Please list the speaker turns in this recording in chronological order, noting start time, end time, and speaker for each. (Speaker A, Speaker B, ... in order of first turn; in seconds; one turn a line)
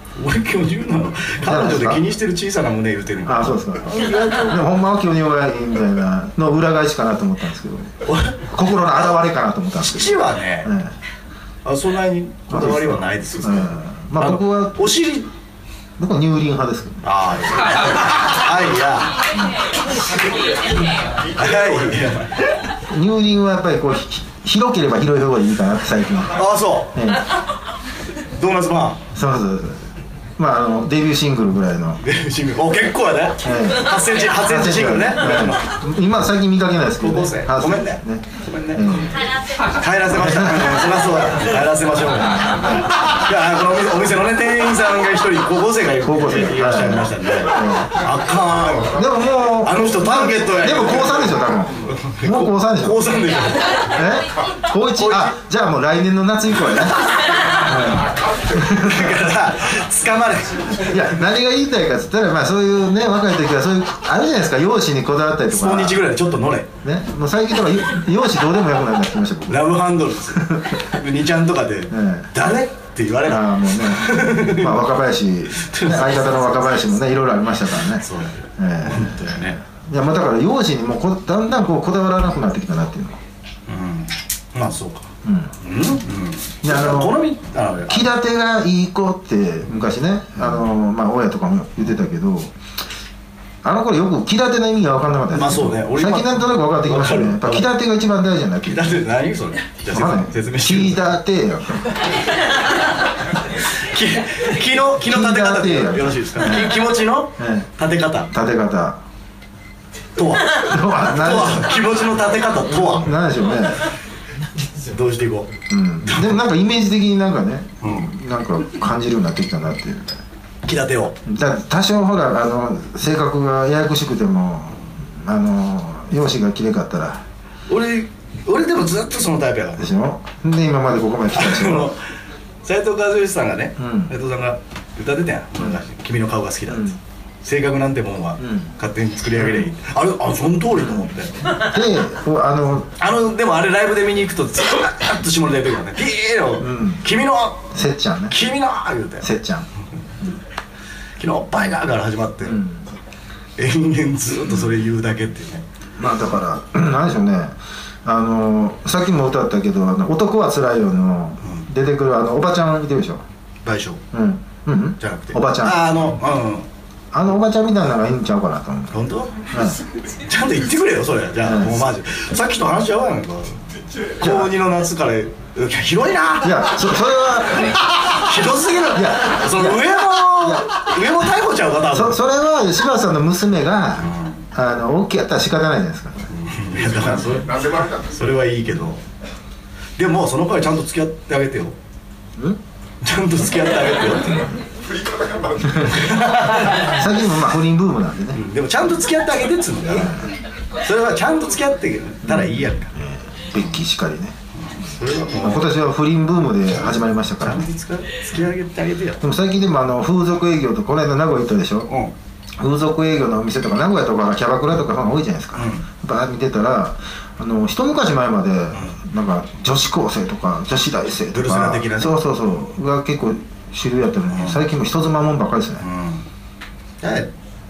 Speaker A: 0.2-4.6
Speaker B: 1.4-2.0
Speaker B: 3.2-10.9
Speaker A: 8.1-9.1
Speaker A: 9.8-10.8
Speaker A: 11.7-15.3
Speaker B: 12.5-14.9
Speaker B: 16.0-17.0
Speaker A: 17.0-19.2
Speaker B: 19.3-19.6
Speaker A: 21.4-22.7
Speaker B: 22.9-26.4
Speaker A: 26.3-27.0
Speaker B: 26.9-27.3
Speaker A: 28.4-29.0
Speaker B: 29.1-32.0
Speaker A: 32.0-35.8
Speaker B: 33.4-39.1
Speaker A: 37.0-39.1
Speaker A: 39.7-54.0
Speaker B: 40.1-40.7
Speaker B: 42.4-42.8
Speaker B: 46.0-47.9
Speaker B: 48.9-53.1
Speaker B: 53.9-57.0
Speaker A: 55.0-55.4
Speaker A: 57.1-58.0
Speaker B: 57.6-59.1
Speaker A: 58.5-60.9
Speaker B: 60.8-66.0
Speaker A: 65.5-66.7
Speaker B: 66.8-69.7
Speaker A: 69.5-74.8
Speaker B: 70.4-70.8
Speaker B: 71.9-72.3
Speaker B: 73.3-78.1
Speaker A: 75.5-76.6
Speaker A: 78.0-79.6
Speaker B: 78.6-83.2
Speaker A: 83.7-88.1
Speaker B: 85.2-85.5
Speaker B: 86.6-87.2
Speaker B: 87.9-92.5
Speaker B: 93.6-99.0
Speaker A: 95.3-97.7
Speaker A: 98.7-101.0
Speaker B: 99.9-101.9
Speaker A: 103.6-108.3
Speaker B: 105.0-106.8
Speaker B: 107.4-107.7
Speaker B: 108.3-109.0
Speaker A: 110.2-113.1
Speaker B: 110.6-111.7
Speaker B: 112.9-113.9
Speaker A: 114.8-115.5
Speaker B: 115.7-120.2
Speaker A: 116.0-116.3
Speaker A: 117.8-118.1
Speaker A: 120.7-121.2
Speaker B: 121.3-127.2
Speaker A: 127.7-129.9
Speaker B: 129.8-131.9
Speaker A: 131.3-132.0
Speaker A: 132.6-141.6
Speaker B: 133.8-134.1
Speaker B: 136.7-137.0
Speaker B: 138.4-138.7
Speaker B: 141.6-142.9
Speaker A: 143.0-147.8
Speaker B: 146.6-147.0
Speaker B: 147.7-148.4
Speaker A: 148.3-149.3
Speaker B: 149.2-149.7
Speaker A: 151.2-152.6
Speaker B: 152.4-152.8
Speaker A: 153.6-155.6
Speaker B: 156.0-163.2
Speaker A: 163.7-164.0
Speaker B: 164.1-165.8
Speaker A: 165.0-166.7
Speaker B: 167.1-169.0
Speaker A: 168.9-169.5
Speaker B: 169.5-169.8
Speaker A: 170.1-173.7
Speaker B: 171.4-171.9
Speaker A: 174.2-176.7
Speaker B: 174.2-174.5
Speaker B: 176.4-177.8
Speaker A: 177.5-182.2
Speaker B: 178.9-180.8
Speaker B: 181.9-186.3
Speaker A: 184.0-184.4
Speaker A: 186.3-189.0
Speaker C: 187.0-188.1
Speaker A: 190.0-191.8
Speaker A: 193.0-194.6
Speaker C: 194.8-196.3
Speaker A: 195.8-197.0
Speaker B: 196.7-198.4
Speaker A: 198.3-200.2
Speaker B: 199.9-200.2
Speaker A: 200.8-202.9
Speaker B: 202.2-204.3
Speaker A: 204.6-205.7
Speaker B: 205.4-207.7
Speaker A: 207.4-209.2
Speaker B: 209.2-211.9
Speaker A: 211.9-212.1
Speaker B: 212.6-225.8
Speaker A: 215.6-215.8
Speaker A: 221.3-222.2
Speaker A: 224.3-224.6
Speaker A: 225.8-226.3
Speaker A: 227.0-227.3